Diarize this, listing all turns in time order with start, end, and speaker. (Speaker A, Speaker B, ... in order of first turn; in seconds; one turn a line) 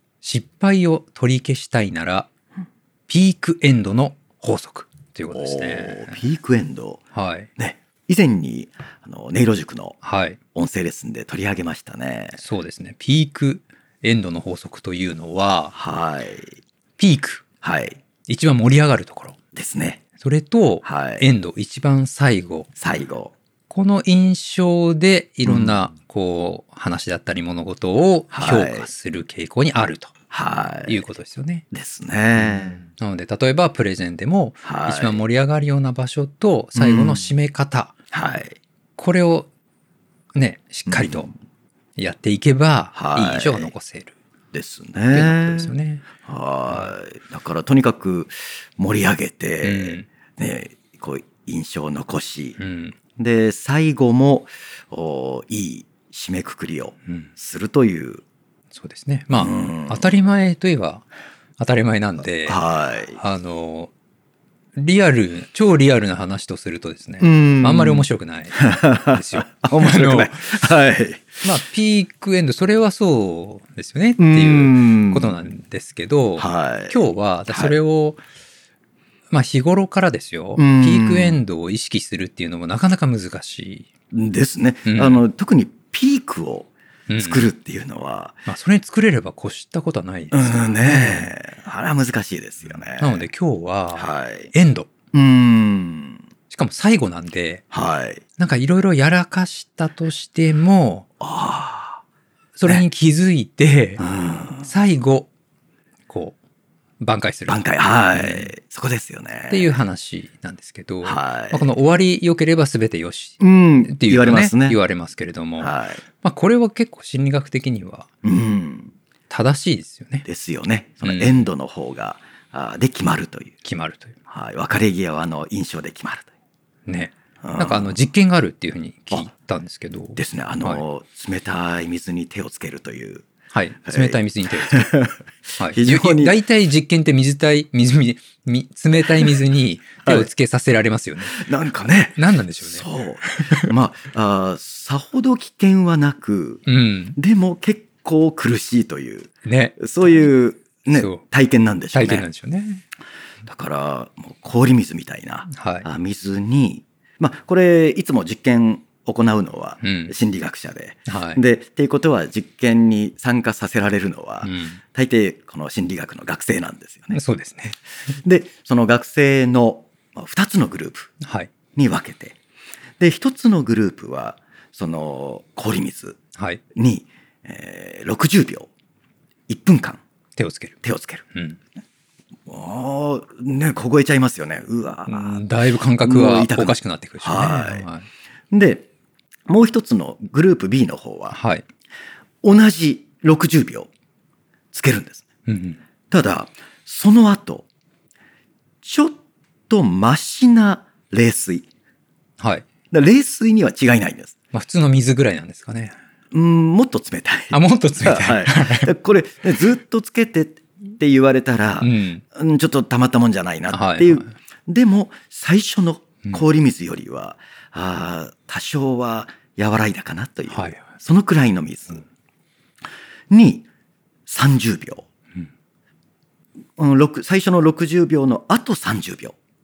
Speaker A: 0.2-2.3
Speaker A: 3.1-6.2
Speaker B: 5.3-7.0
Speaker A: 7.1-7.5
Speaker B: 7.6-10.0
Speaker A: 10.0-10.4
Speaker B: 10.6-12.4
Speaker A: 12.4-15.7
Speaker B: 15.7-16.6
Speaker A: 17.0-17.4
Speaker B: 17.6-18.0
Speaker A: 18.3-19.4
Speaker B: 19.5-20.0
Speaker A: 20.2-22.7
Speaker B: 20.8-21.3
Speaker B: 22.8-23.3
Speaker A: 23.7-30.1
Speaker B: 25.4-25.8
Speaker B: 28.3-28.9
Speaker B: 30.3-31.1
Speaker A: 30.9-31.6
Speaker B: 31.7-32.8
Speaker A: 32.4-37.9
Speaker B: 34.6-35.2
Speaker B: 36.8-37.3
Speaker B: 38.1-38.6
Speaker A: 39.0-39.5
Speaker A: 40.4-41.3
Speaker B: 40.9-41.3
Speaker A: 42.0-44.2
Speaker B: 42.9-43.7
Speaker B: 44.5-45.7
Speaker A: 45.1-46.0
Speaker B: 46.2-52.6
Speaker A: 46.7-46.9
Speaker A: 49.6-50.1
Speaker A: 52.6-53.0
Speaker B: 53.2-58.2
Speaker A: 58.7-61.1
Speaker B: 59.3-60.2
Speaker A: 61.6-62.6
Speaker B: 62.5-63.2
Speaker A: 63.2-63.9
Speaker A: 64.8-70.5
Speaker B: 67.2-71.6
Speaker A: 71.4-78.2
Speaker B: 74.2-75.4
Speaker B: 76.4-77.0
Speaker B: 77.5-77.8
Speaker A: 79.3-83.9
Speaker B: 80.6-81.4
Speaker B: 84.1-88.5
Speaker A: 84.9-85.2
Speaker A: 87.1-87.5
Speaker A: 88.5-91.3
Speaker B: 90.3-93.2
Speaker A: 93.0-94.9
Speaker B: 94.0-94.5
Speaker B: 95.1-96.2
Speaker A: 96.5-97.6
Speaker B: 97.7-98.2
Speaker A: 98.4-101.1
Speaker B: 101.2-102.0
Speaker A: 102.6-104.0
Speaker B: 104.0-104.7
Speaker A: 104.6-105.3
Speaker A: 106.1-106.4
Speaker A: 107.0-108.5
Speaker B: 107.5-109.8
Speaker A: 109.5-118.1
Speaker B: 111.0-111.7
Speaker B: 113.4-114.8
Speaker B: 115.6-116.0
Speaker B: 118.2-118.9
Speaker A: 119.3-120.3
Speaker B: 120.3-123.5
Speaker A: 121.0-121.5
Speaker A: 123.6-124.1
Speaker B: 124.3-126.3
Speaker A: 126.9-130.8
Speaker B: 127.4-128.0
Speaker B: 130.2-133.3
Speaker A: 133.5-134.9
Speaker B: 133.9-136.4
Speaker A: 135.6-141.4
Speaker B: 141.2-152.3
Speaker A: 142.2-143.7
Speaker A: 146.7-147.2
Speaker A: 149.4-150.3
Speaker A: 150.8-151.2
Speaker A: 151.9-152.8
Speaker B: 153.4-167.2
Speaker A: 155.5-155.9
Speaker A: 159.8-160.1
Speaker A: 161.1-161.4
Speaker A: 164.4-164.8
Speaker A: 167.1-167.8
Speaker B: 168.2-171.1
Speaker A: 171.2-171.5
Speaker B: 171.8-172.4
Speaker B: 173.0-176.2
Speaker A: 176.4-176.6
Speaker B: 176.7-178.7
Speaker B: 179.5-180.0
Speaker A: 180.4-180.8
Speaker B: 180.8-181.3
Speaker A: 181.3-181.6
Speaker B: 182.5-187.9
Speaker A: 185.1-188.1
Speaker B: 188.5-188.9
Speaker B: 189.5-191.4
Speaker A: 191.3-191.6
Speaker B: 192.4-193.9
Speaker B: 194.7-195.2
Speaker A: 195.5-195.8
Speaker B: 196.1-197.7
Speaker B: 198.8-199.2
Speaker B: 199.7-201.7
Speaker A: 202.4-202.7
Speaker B: 202.9-204.4
Speaker A: 204.5-205.9
Speaker B: 206.3-222.0
Speaker A: 207.5-208.9
Speaker A: 211.8-212.2
Speaker A: 213.7-214.3
Speaker A: 220.5-220.9
Speaker B: 223.3-223.7
Speaker B: 224.3-225.1
Speaker B: 226.8-229.3